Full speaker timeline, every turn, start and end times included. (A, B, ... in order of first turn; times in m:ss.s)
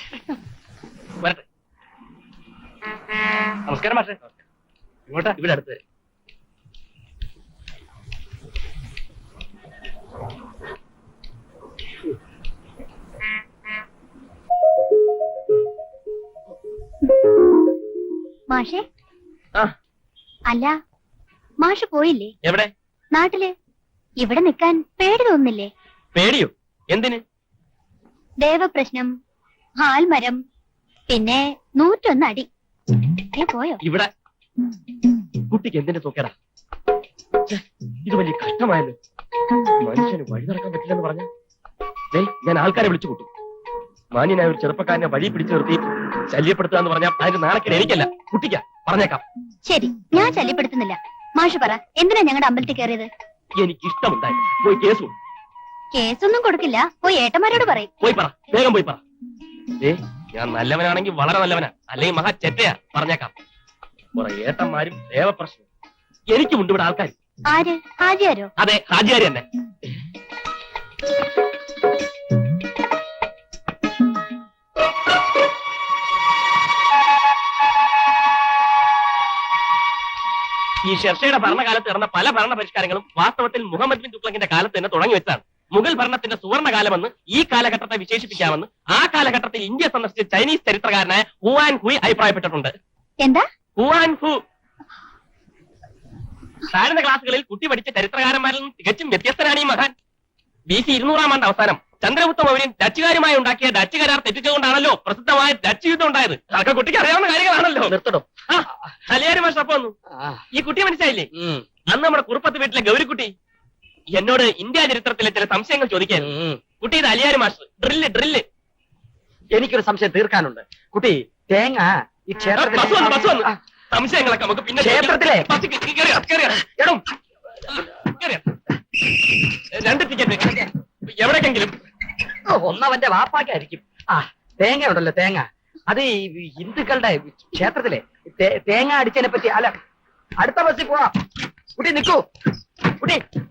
0:03.7-0:04.2 A
0:05.1-0:05.8 A
0:18.5-0:18.8 B
0:20.5-0:20.8 B
0:21.6-0:22.3 B
0:22.4-0:22.7 A
0:23.1-0:23.5 B
0:24.2-0:25.7 B
0:26.1-0:27.2 A
0:28.4-0:29.1 B
0:29.8-0:30.4 B
0:31.1-0:32.5 B
0:33.3-0:33.8 B
0:33.8-0:34.1 A
0:35.5-0:36.3 A
0:37.5-0:39.0 A
0:39.8-0:41.3 A
0:42.1-0:43.3 A
0:44.1-0:49.2 A
0:49.6-0:53.1 B
0:53.6-0:55.1 A
0:55.9-0:57.9 B
0:58.0-0:59.0 A
0:59.8-1:03.3 A
1:04.2-1:05.6 A
1:06.3-1:07.1 A
1:07.5-1:08.5 B
1:08.6-1:09.4 A
1:20.8-1:32.7 A
1:33.8-1:34.4 A
1:36.7-1:39.9 A
1:40.7-1:47.9 A
1:47.9-1:48.2 C
1:48.5-1:49.9 A
1:50.1-1:50.4 C
1:50.5-1:51.3 A
1:51.4-1:51.6 C
1:51.9-1:53.3 A
1:54.1-1:58.4 A
1:56.2-1:56.6 C
1:59.5-2:03.5 C
2:02.6-2:07.0 A
2:04.8-2:05.5 C
2:07.7-2:08.4 A
2:09.7-2:11.8 A
2:12.5-2:19.7 C
2:20.4-2:21.1 C
2:21.8-2:22.2 C
2:23.0-2:23.2 C